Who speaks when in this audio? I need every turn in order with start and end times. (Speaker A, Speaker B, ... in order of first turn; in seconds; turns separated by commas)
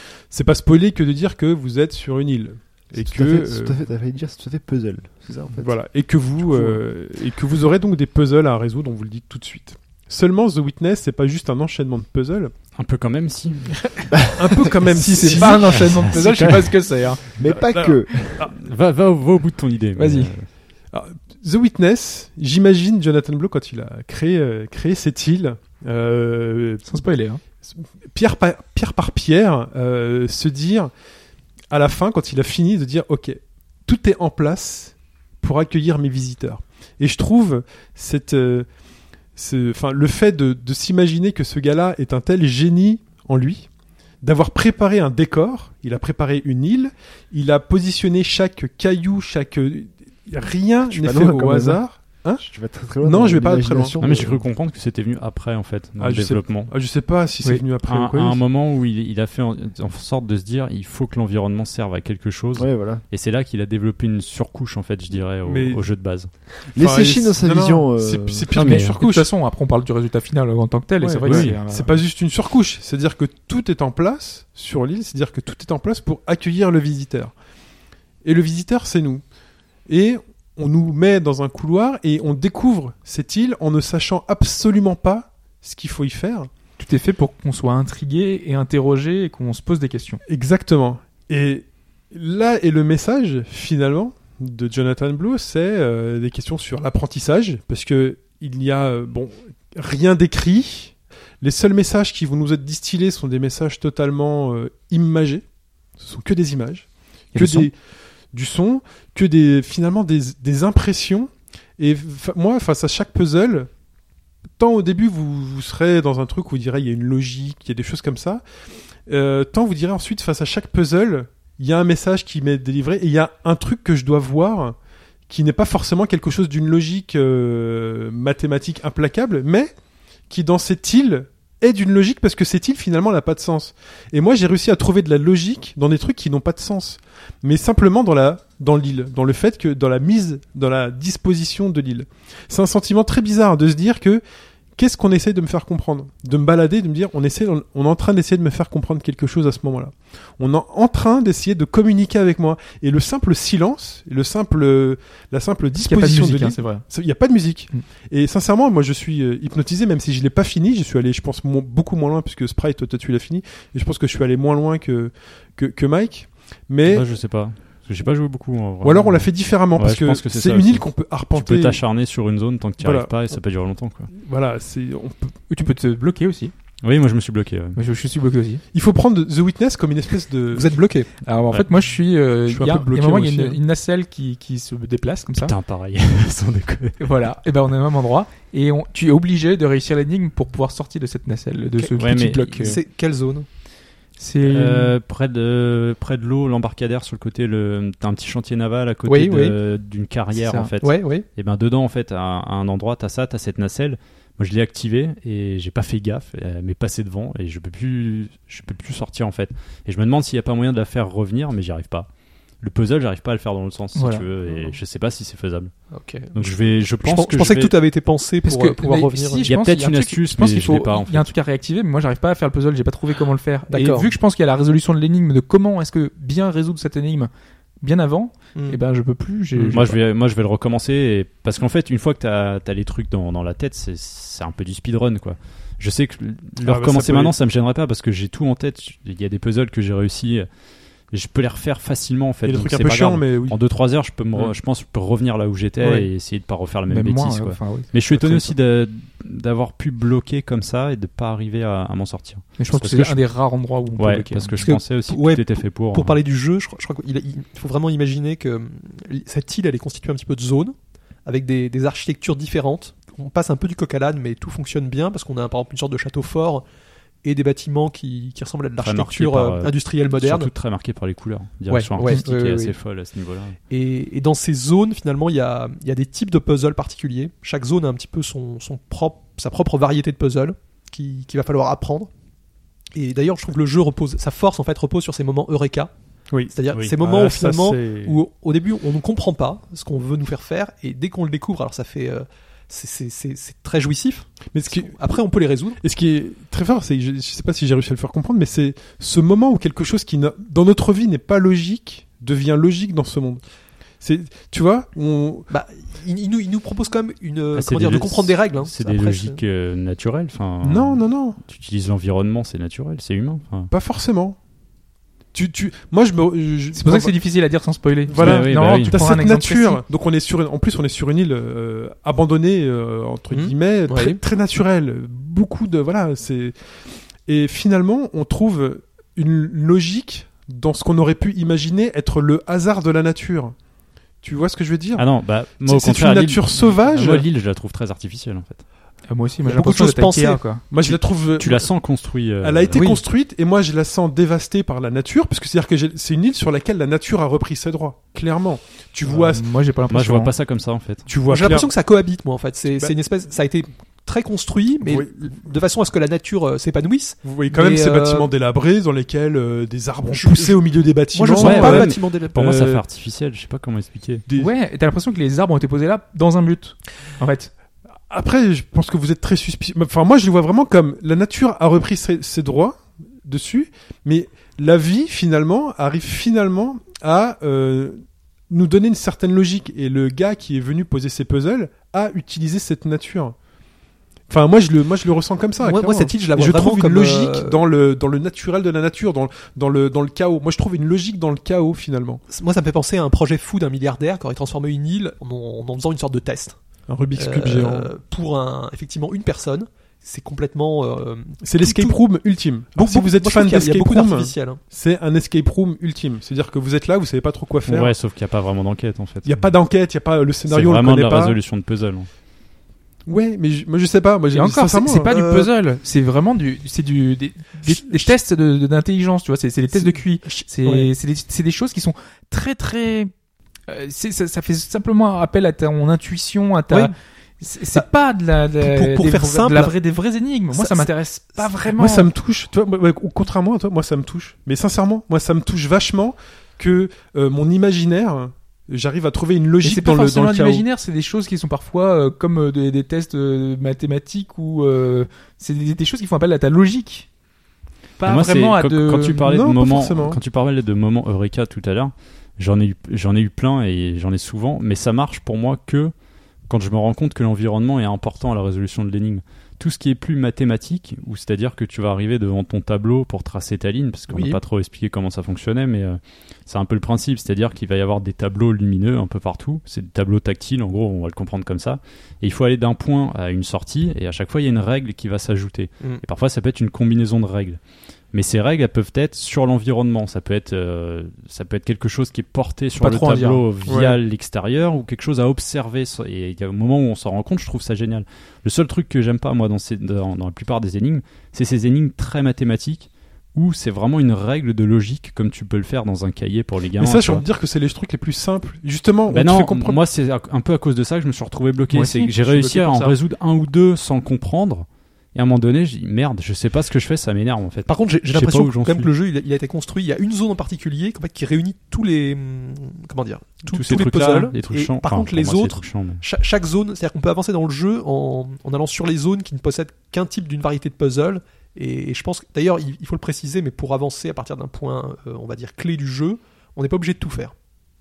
Speaker A: 0.3-3.8, Speaker B: 3.0-5.8, Speaker A: 5.6-12.5, Speaker B: 6.4-6.8, Speaker C: 12.8-13.8, Speaker D: 13.8-14.1, Speaker B: 14.2-14.7, Speaker A: 14.4-16.4, Speaker D: 14.9-17.4, Speaker C: 15.5-16.8, Speaker B: 17.4-18.4, Speaker A: 17.4-18.6, Speaker C: 18.4-20.5, Speaker D: 20.0-20.3, Speaker A: 20.9-26.9, Speaker D: 26.9-27.4, Speaker A: 27.7-30.9, Speaker A: 31.7-38.7, Speaker A: 39.4-43.7, Speaker A: 44.2-52.5, Speaker B: 50.9-51.8, Speaker B: 52.4-54.4, Speaker A: 53.0-54.3, Speaker C: 54.0-56.7, Speaker A: 56.0-58.4, Speaker C: 57.8-66.3, Speaker B: 62.6-63.0, Speaker A: 65.5-65.8, Speaker B: 66.8-68.5, Speaker A: 66.8-69.3, Speaker C: 68.5-69.0, Speaker D: 68.6-72.0, Speaker A: 71.0-77.3, Speaker C: 71.2-71.6, Speaker A: 78.2-79.2, Speaker A: 79.9-86.5, Speaker D: 86.8-90.2, Speaker A: 90.3-105.4, Speaker A: 106.0-107.7, Speaker D: 107.3-107.7, Speaker A: 108.3-113.7, Speaker A: 114.6-118.4, Speaker A: 119.1-124.8, Speaker A: 125.3-129.7, Speaker A: 130.3-144.2, Speaker A: 144.8-167.1, Speaker D: 155.8-156.8, Speaker C: 166.9-174.1, Speaker A: 168.8-171.8, Speaker A: 172.8-173.1, Speaker A: 174.1-175.4, Speaker D: 175.5-176.5, Speaker C: 176.8-177.8, Speaker D: 177.8-178.6, Speaker A: 178.7-180.8, Speaker E: 180.5-181.1, Speaker D: 181.2-185.5, Speaker A: 182.5-183.6, Speaker C: 185.4-187.1, Speaker D: 187.0-192.8, Speaker E: 191.8-193.5, Speaker C: 192.0-192.7, Speaker D: 194.2-194.9, Speaker C: 194.4-212.1, Speaker E: 199.1-199.6, Speaker D: 200.3-200.7, Speaker E: 200.8-201.3, Speaker C: 212.6-215.7, Speaker D: 213.9-214.3, Speaker E: 215.9-219.5, Speaker C: 216.3-217.7, Speaker D: 218.4-227.3, Speaker C: 219.5-221.3, Speaker E: 223.7-224.1, Speaker D: 227.8-230.0, Speaker C: 229.7-240.5, Speaker A: 236.6-237.3, Speaker C: 241.1-253.2, Speaker A: 242.4-243.6, Speaker D: 246.9-248.6, Speaker D: 252.6-254.7, Speaker C: 254.0-256.2, Speaker E: 254.6-266.6, Speaker E: 267.2-270.5, Speaker C: 268.8-273.6, Speaker E: 271.7-272.7, Speaker D: 272.1-272.6, Speaker E: 273.7-282.1, Speaker E: 282.9-285.9, Speaker A: 286.3-288.2, Speaker E: 286.5-295.8, Speaker A: 294.5-295.1, Speaker A: 295.8-303.4, Speaker A: 304.0-305.5, Speaker E: 305.5-309.4, Speaker C: 307.6-313.7, Speaker A: 310.6-311.4, Speaker A: 313.7-314.4, Speaker A: 315.3-317.2, Speaker D: 316.8-319.8, Speaker A: 318.1-326.6, Speaker C: 318.1-319.1, Speaker E: 323.3-324.2, Speaker A: 327.3-333.6, Speaker A: 334.2-335.1, Speaker C: 335.0-338.6, Speaker A: 335.6-337.3, Speaker D: 339.1-340.7, Speaker E: 339.4-340.4, Speaker A: 340.7-341.7, Speaker C: 340.8-342.8, Speaker A: 342.4-349.5, Speaker E: 342.7-343.0, Speaker D: 349.1-350.3, Speaker C: 349.9-351.1, Speaker A: 351.1-351.7, Speaker E: 351.3-358.3, Speaker A: 354.9-355.1, Speaker A: 357.2-362.8, Speaker D: 357.7-358.1, Speaker E: 360.1-362.5, Speaker C: 361.4-364.2, Speaker A: 364.3-364.5, Speaker D: 364.4-367.5, Speaker A: 368.1-383.4, Speaker A: 384.3-392.2, Speaker E: 385.6-387.6, Speaker E: 392.3-396.6, Speaker A: 396.9-397.9, Speaker E: 397.1-402.0, Speaker A: 401.4-407.9, Speaker E: 402.8-404.6, Speaker C: 407.7-409.5, Speaker A: 409.2-411.4, Speaker C: 410.5-412.1, Speaker A: 413.1-415.2, Speaker D: 414.3-423.1, Speaker E: 415.1-415.5, Speaker A: 417.7-418.1, Speaker E: 419.7-420.9, Speaker D: 423.7-432.1, Speaker E: 428.6-429.8, Speaker E: 430.5-431.6, Speaker A: 431.7-440.6, Speaker D: 439.6-447.1, Speaker D: 448.0-449.2, Speaker C: 448.0-455.9, Speaker A: 449.2-450.2, Speaker C: 456.5-477.6, Speaker E: 464.1-464.4, Speaker C: 478.1-497.2, Speaker D: 482.8-483.5, Speaker A: 483.7-484.0, Speaker A: 496.8-499.8, Speaker C: 499.1-508.9, Speaker D: 501.7-502.9, Speaker E: 507.7-527.3, Speaker C: 513.5-516.0